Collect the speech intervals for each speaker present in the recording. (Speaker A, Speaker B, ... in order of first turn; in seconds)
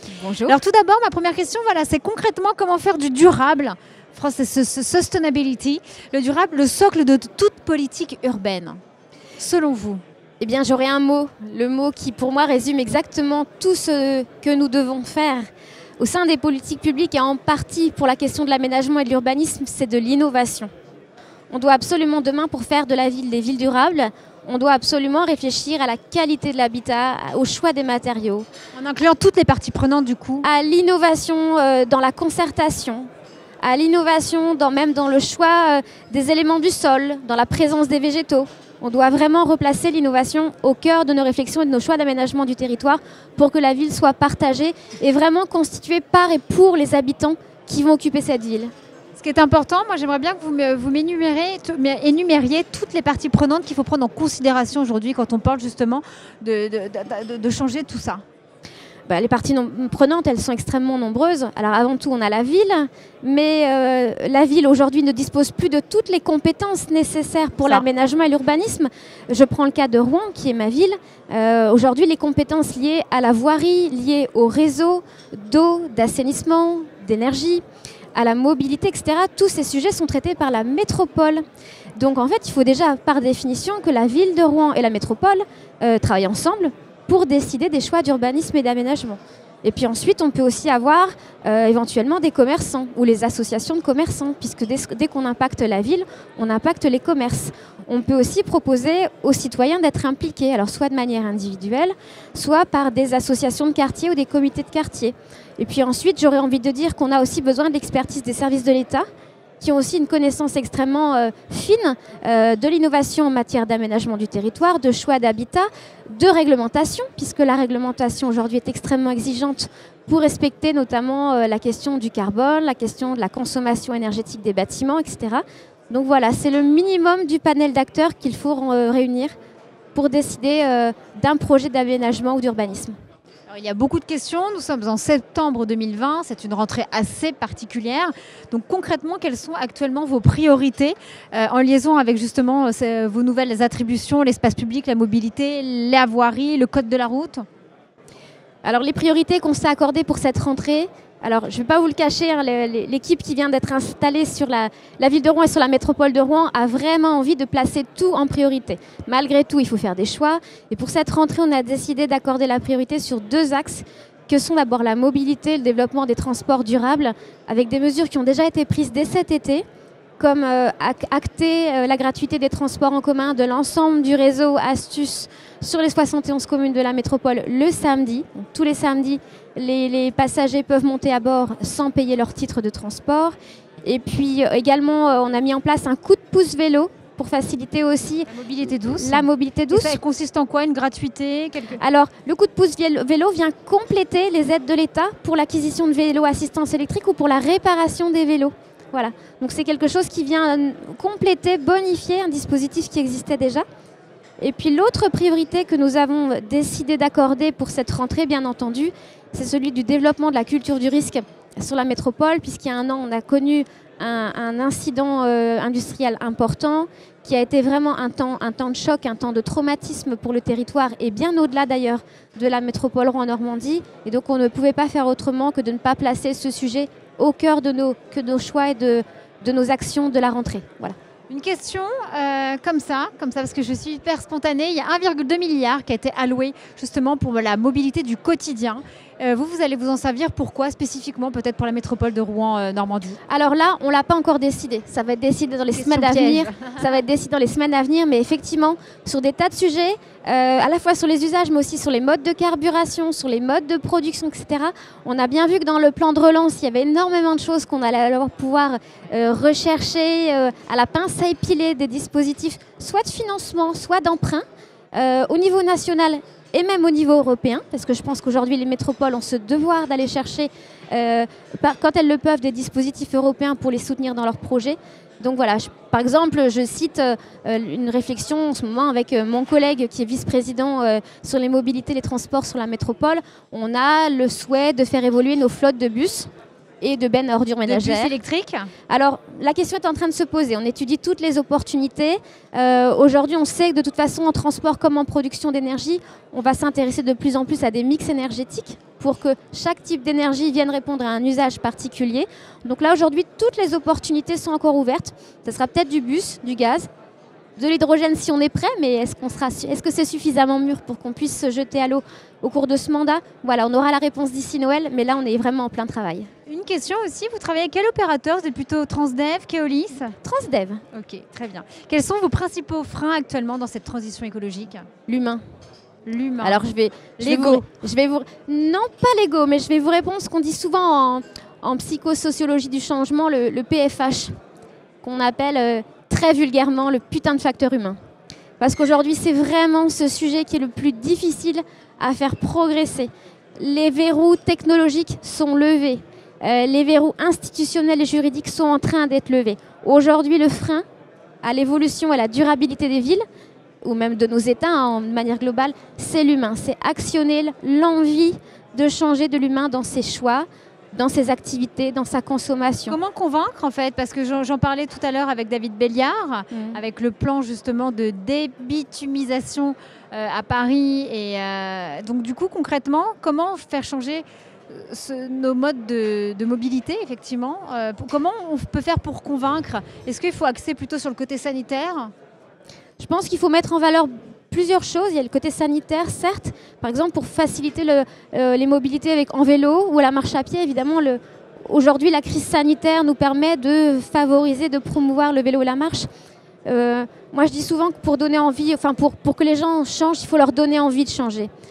Speaker A: 0.2-0.5, 10.4-15.4, 16.0-20.7, 21.5-28.5, 30.4-33.1, 33.6-48.7, 59.1-77.6, 78.1-81.4, 82.0-109.0, 109.6-129.3, 129.9-132.9, 148.6-169.6, 170.2-188.3, 189.0-190.0, 191.8-203.6, 204.4-230.9, 243.3-286.3, 286.8-288.1, 288.9-306.9, 307.6-316.3, 320.2-320.8, 325.1-325.4, 326.4-334.3, 335.0-338.0, 338.6-350.8, 351.4-353.2, 353.8-363.0, 366.5-366.8, 383.0-396.1, 396.6-401.5
Speaker B: 0.4-8.8, 9.4-10.0, 28.7-30.5, 49.1-58.2, 133.5-147.4, 188.3-191.8, 231.3-243.2, 245.7-246.8, 287.6-288.7, 316.5-320.1, 320.9-324.9, 326.1-326.6, 327.2-327.7, 362.9-382.1